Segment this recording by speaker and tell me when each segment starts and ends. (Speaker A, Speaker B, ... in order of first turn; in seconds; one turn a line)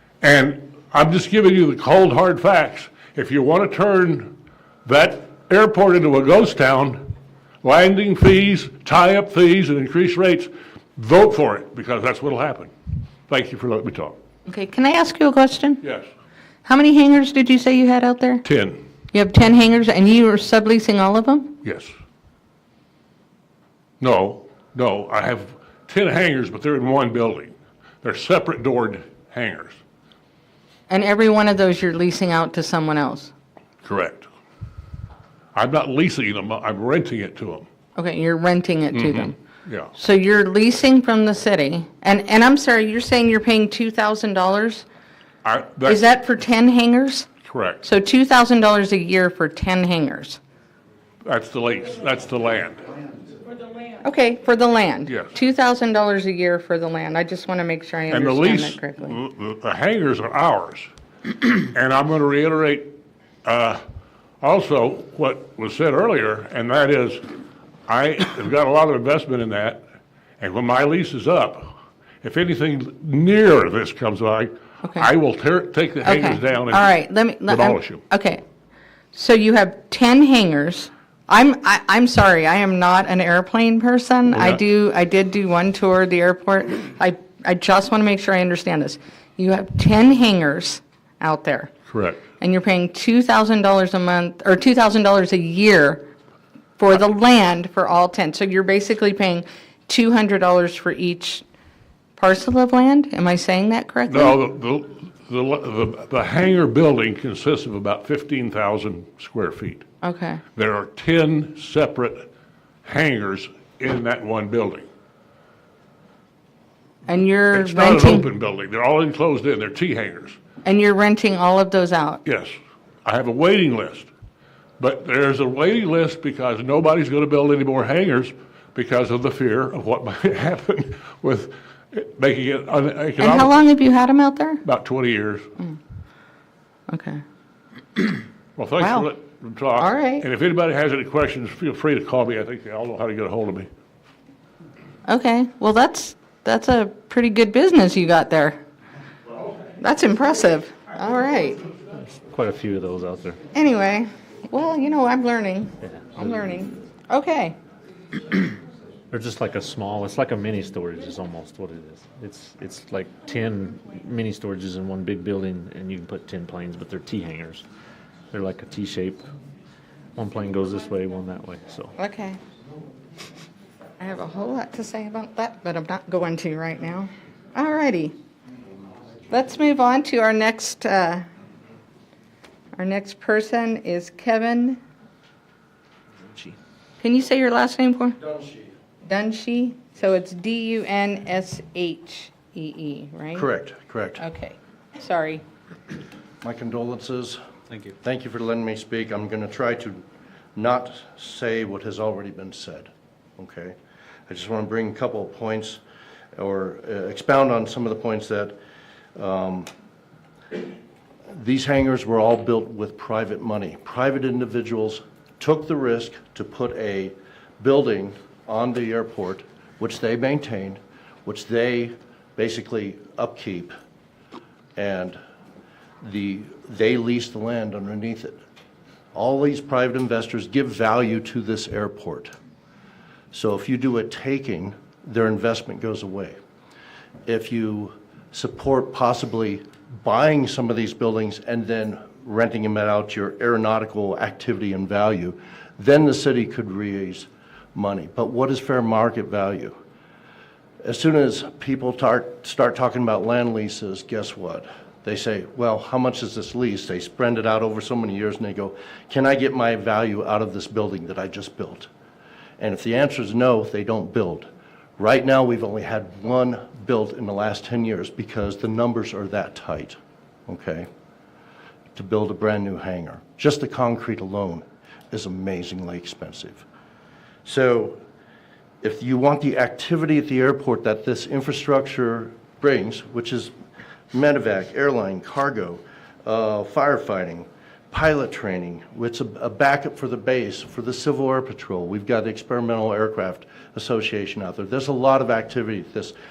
Speaker A: 0.2-4.3
Speaker A: 4.8-7.0
Speaker A: 7.6-12.7
Speaker A: 13.3-14.2
Speaker B: 14.5-15.8
Speaker A: 15.8-16.1
Speaker B: 16.6-18.4
Speaker A: 18.4-18.8
Speaker B: 19.1-21.5
Speaker A: 21.6-21.9
Speaker A: 24.0-29.8
Speaker B: 30.9-33.3
Speaker A: 33.8-34.3
Speaker A: 35.5-37.6
Speaker B: 38.0-39.3
Speaker A: 38.9-39.9
Speaker B: 40.0-44.8
Speaker A: 45.4-46.0
Speaker B: 45.8-47.3
Speaker A: 47.4-47.8
Speaker B: 47.8-50.4
Speaker A: 51.2-52.9
Speaker B: 54.0-59.2
Speaker A: 55.1-55.3
Speaker A: 58.1-60.9
Speaker A: 61.5-62.9
Speaker A: 63.4-63.8
Speaker A: 64.4-67.2
Speaker A: 67.9-69.8
Speaker A: 70.4-71.7
Speaker A: 72.2-76.9
Speaker B: 74.8-75.1
Speaker B: 76.0-78.4
Speaker A: 77.5-78.0
Speaker B: 79.1-91.7
Speaker A: 84.3-84.6
Speaker A: 91.9-92.2
Speaker B: 92.4-96.0
Speaker B: 96.8-101.4
Speaker B: 102.2-104.3
Speaker A: 104.1-109.8
Speaker B: 110.0-110.4
Speaker A: 110.5-112.3
Speaker A: 112.8-114.9
Speaker B: 117.1-118.2
Speaker A: 117.5-120.4
Speaker B: 120.6-122.2
Speaker A: 122.2-124.1
Speaker A: 124.8-133.6
Speaker B: 133.2-134.6
Speaker A: 134.6-135.5
Speaker B: 136.9-137.2
Speaker A: 138.6-143.7
Speaker B: 138.8-139.1
Speaker B: 139.8-140.2
Speaker B: 145.1-148.6
Speaker B: 149.8-151.6
Speaker C: 152.0-153.4
Speaker B: 153.5-157.6
Speaker C: 155.8-156.2
Speaker C: 159.1-167.6
Speaker C: 168.3-169.2
Speaker C: 170.2-171.9
Speaker B: 172.0-172.4
Speaker B: 174.0-178.1
Speaker B: 179.3-181.2
Speaker B: 182.7-184.8
Speaker B: 187.0-188.2
Speaker D: 188.2-188.7
Speaker B: 189.0-193.5
Speaker D: 193.3-194.2
Speaker B: 194.2-195.4
Speaker D: 196.4-200.0
Speaker D: 200.6-203.7
Speaker D: 204.3-205.8
Speaker D: 206.3-208.6
Speaker D: 209.2-209.7
Speaker D: 211.3-223.7
Speaker D: 224.8-225.2
Speaker D: 226.0-228.4
Speaker D: 229.1-232.3
Speaker D: 233.3-236.3
Speaker D: 237.2-249.8
Speaker D: 250.8-261.9
Speaker D: 262.6-270.9
Speaker D: 271.9-276.6
Speaker D: 277.4-278.0
Speaker D: 278.8-283.5
Speaker D: 284.1-296.1